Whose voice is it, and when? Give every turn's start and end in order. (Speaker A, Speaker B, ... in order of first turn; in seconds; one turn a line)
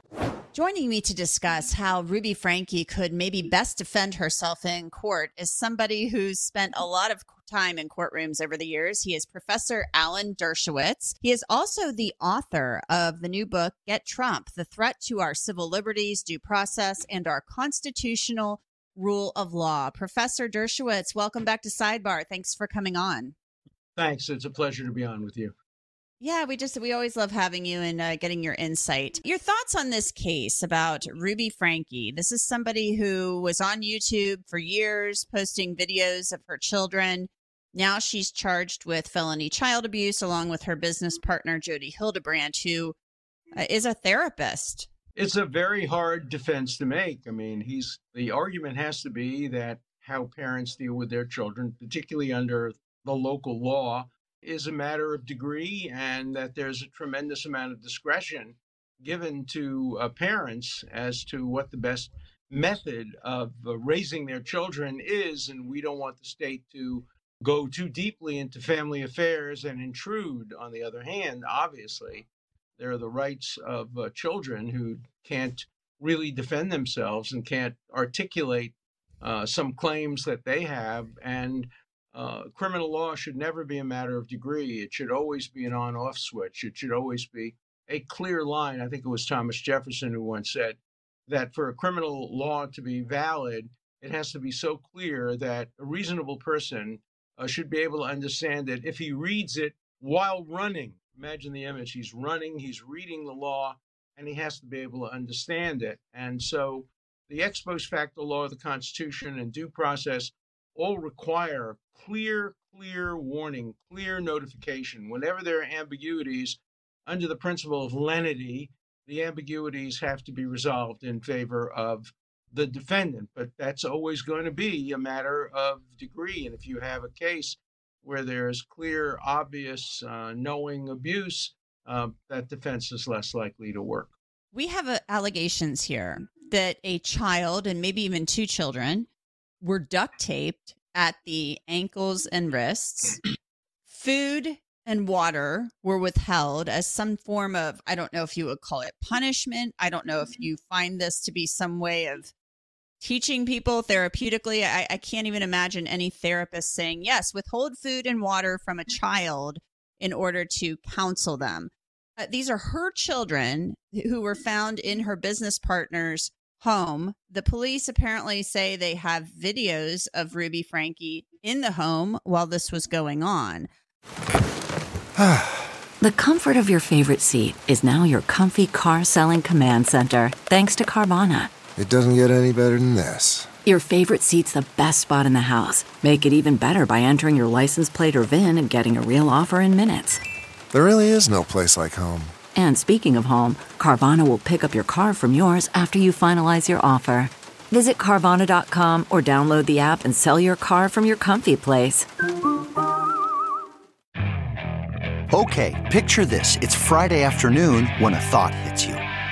Speaker A: 0.5-23.4
Speaker B: 24.0-25.5
Speaker A: 26.2-43.0
Speaker A: 43.6-44.9
Speaker B: 45.2-72.3
Speaker B: 72.8-134.1
Speaker A: 134.5-139.1
Speaker A: 139.6-143.2
Speaker A: 143.9-152.3
Speaker A: 153.0-173.7
Speaker C: 175.2-175.5
Speaker D: 176.0-181.6
Speaker C: 181.8-183.5
Speaker D: 183.7-190.2
Speaker C: 190.7-192.3
Speaker D: 192.6-202.1
Speaker E: 205.3-209.0